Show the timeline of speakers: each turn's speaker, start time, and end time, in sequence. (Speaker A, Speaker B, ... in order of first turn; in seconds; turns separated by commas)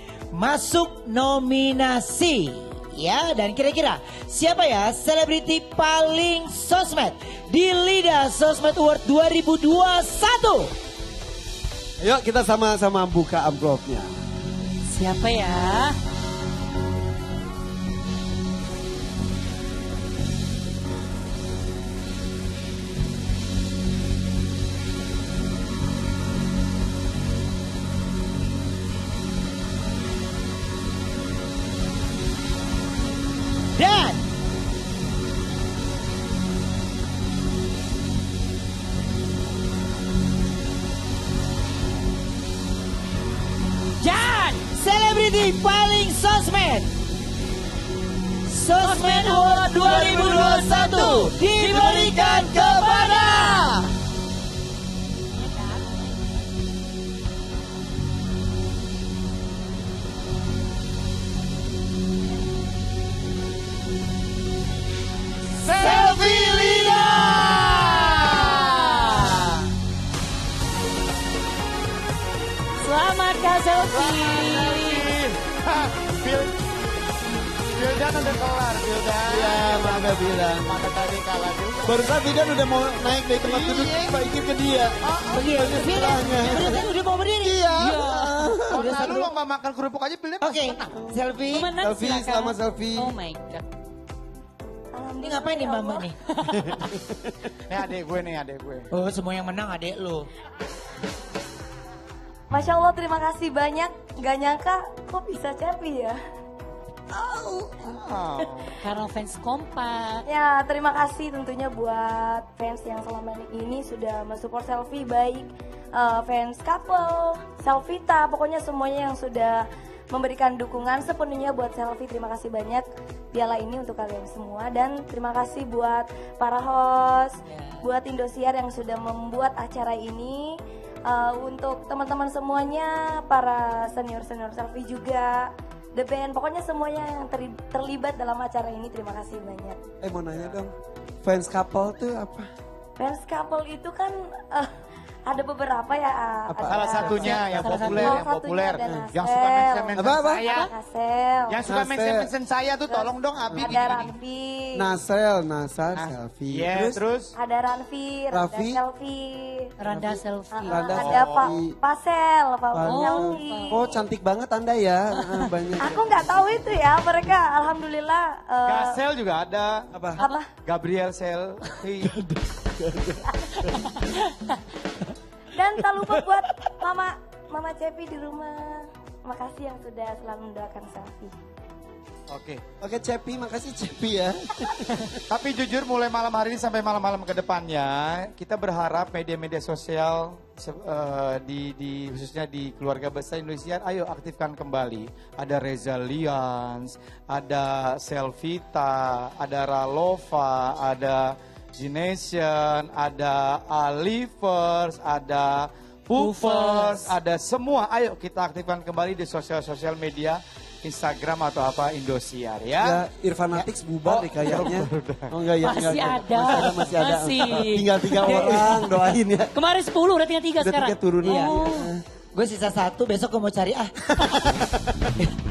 Speaker A: 0.3-10.7, Speaker B: 12.0-14.1, Speaker C: 14.9-15.9, Speaker A: 33.8-34.2, Speaker C: 44.0-44.6, Speaker A: 44.7-46.9, Speaker A: 48.5-53.8, Speaker C: 48.8-52.2, Speaker B: 52.5-53.0, Speaker C: 55.4-55.8, Speaker A: 65.6-69.4, Speaker D: 65.6-68.7, Speaker C: 72.8-75.1, Speaker D: 73.9-76.5, Speaker D: 77.7-82.0, Speaker B: 79.2-80.8, Speaker B: 81.8-89.0, Speaker D: 83.4-84.1, Speaker D: 85.0-85.5, Speaker A: 85.3-87.9, Speaker D: 86.2-86.7, Speaker C: 87.8-88.5, Speaker A: 88.5-89.3, Speaker D: 88.7-90.9, Speaker A: 90.4-91.7, Speaker C: 91.5-93.7, Speaker B: 91.8-93.1, Speaker E: 94.9-96.1, Speaker A: 95.2-96.2, Speaker C: 96.3-96.8, Speaker B: 96.7-97.3, Speaker D: 97.7-98.9, Speaker A: 98.9-100.3, Speaker E: 102.5-106.2, Speaker D: 107.6-108.7, Speaker C: 108.8-110.2, Speaker E: 110.3-139.8, Speaker A: 127.5-127.8, Speaker B: 140.0-140.7, Speaker B: 141.2-142.5, Speaker E: 143.0-144.7, Speaker E: 145.3-151.7, Speaker B: 146.5-147.8, Speaker D: 146.7-150.7, Speaker C: 147.6-148.2, Speaker B: 149.9-150.5, Speaker C: 150.4-150.7, Speaker D: 151.5-154.2, Speaker B: 151.6-152.3, Speaker E: 152.9-154.9, Speaker B: 153.5-153.8, Speaker B: 154.7-157.0, Speaker D: 155.9-157.3, Speaker E: 157.3-159.7, Speaker B: 158.3-158.8, Speaker C: 159.8-161.0, Speaker B: 159.9-161.8, Speaker E: 160.5-163.9, Speaker D: 161.0-161.5, Speaker B: 162.7-166.5, Speaker C: 162.8-163.8, Speaker C: 165.2-165.4, Speaker E: 165.8-169.0, Speaker D: 168.7-169.9, Speaker B: 169.9-170.2, Speaker E: 170.2-170.5, Speaker D: 170.6-172.2, Speaker B: 172.1-173.7, Speaker C: 173.7-174.6, Speaker E: 175.5-181.3, Speaker D: 182.3-182.6, Speaker B: 182.8-185.2, Speaker D: 185.3-213.0, Speaker C: 206.2-207.1, Speaker B: 212.8-219.5, Speaker D: 213.5-215.3, Speaker C: 215.6-221.9, Speaker B: 220.6-222.0, Speaker A: 221.2-221.6, Speaker A: 222.3-224.5, Speaker B: 224.2-225.1